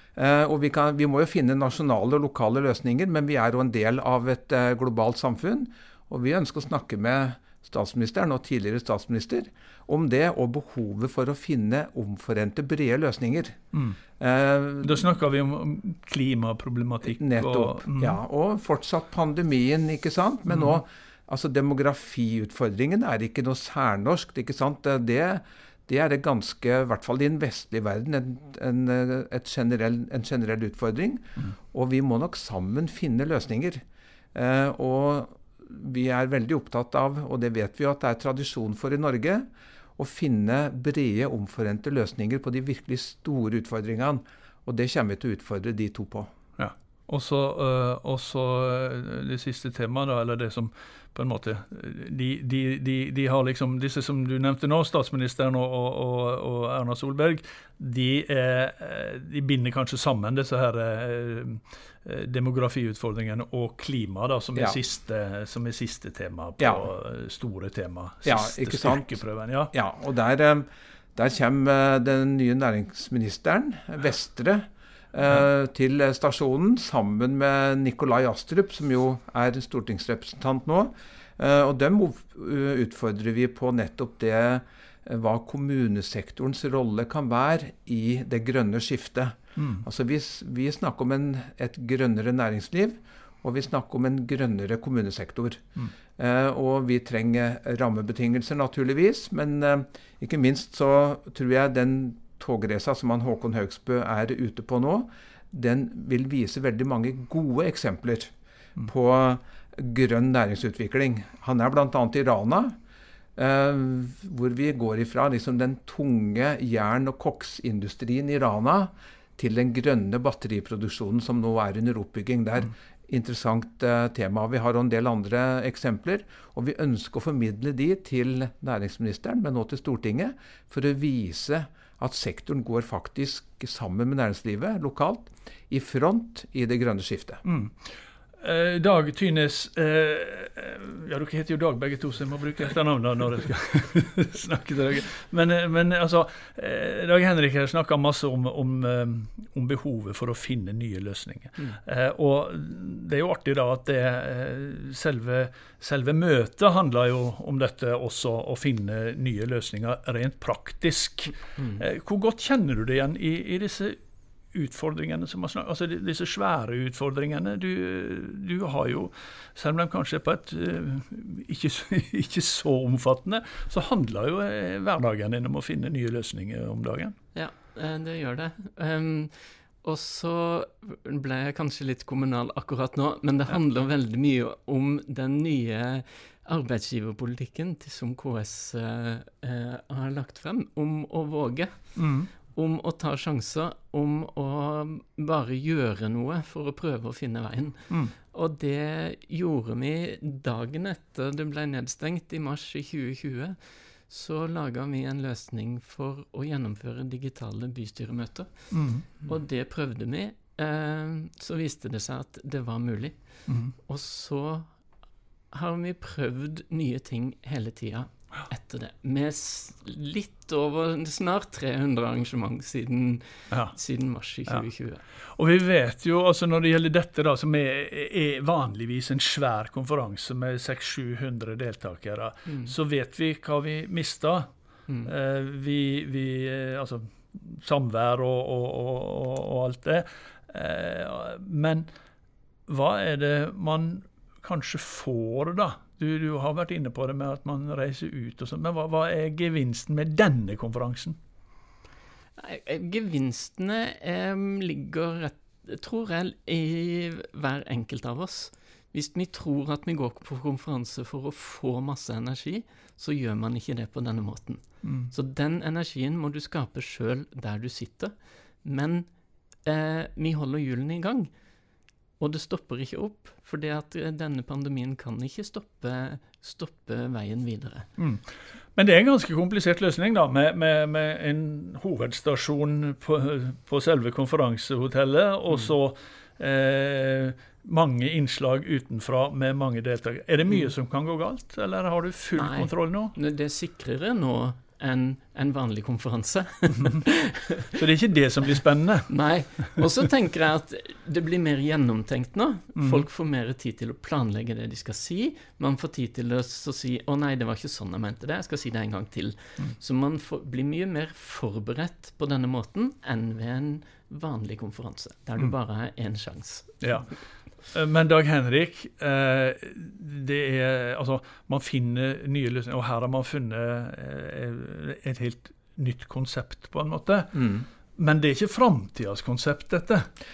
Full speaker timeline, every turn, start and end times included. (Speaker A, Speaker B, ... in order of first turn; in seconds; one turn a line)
Speaker A: 0.1-13.6
Speaker A: 14.2-15.1
Speaker B: 14.8-18.2
Speaker A: 17.1-33.8
Speaker B: 20.5-20.8
Speaker A: 34.3-46.3
Speaker B: 46.6-69.7
Speaker A: 66.6-66.8
Speaker A: 68.2-69.2
Speaker A: 69.7-95.6
Speaker B: 89.6-89.8
Speaker A: 96.2-112.8
Speaker A: 113.3-137.4
Speaker B: 137.4-164.0
Speaker B: 164.5-177.1
Speaker C: 177.3-208.7
Speaker B: 191.9-192.3
Speaker B: 208.7-209.0
Speaker C: 209.2-214.7
Speaker B: 213.5-213.7
Speaker C: 215.5-225.0
Speaker B: 223.5-223.8
Speaker B: 225.3-234.5
Speaker C: 232.5-232.7
Speaker B: 235.0-241.9
Speaker B: 242.7-251.2
Speaker C: 252.4-269.1
Speaker B: 264.8-265.1
Speaker C: 269.6-271.3
Speaker C: 272.2-277.9
Speaker B: 278.0-293.1
Speaker C: 292.4-297.7
Speaker B: 296.8-297.0
Speaker B: 297.6-299.1
Speaker C: 299.1-316.8
Speaker B: 302.8-303.0
Speaker B: 316.8-317.1
Speaker B: 317.7-330.1
Speaker A: 327.4-327.6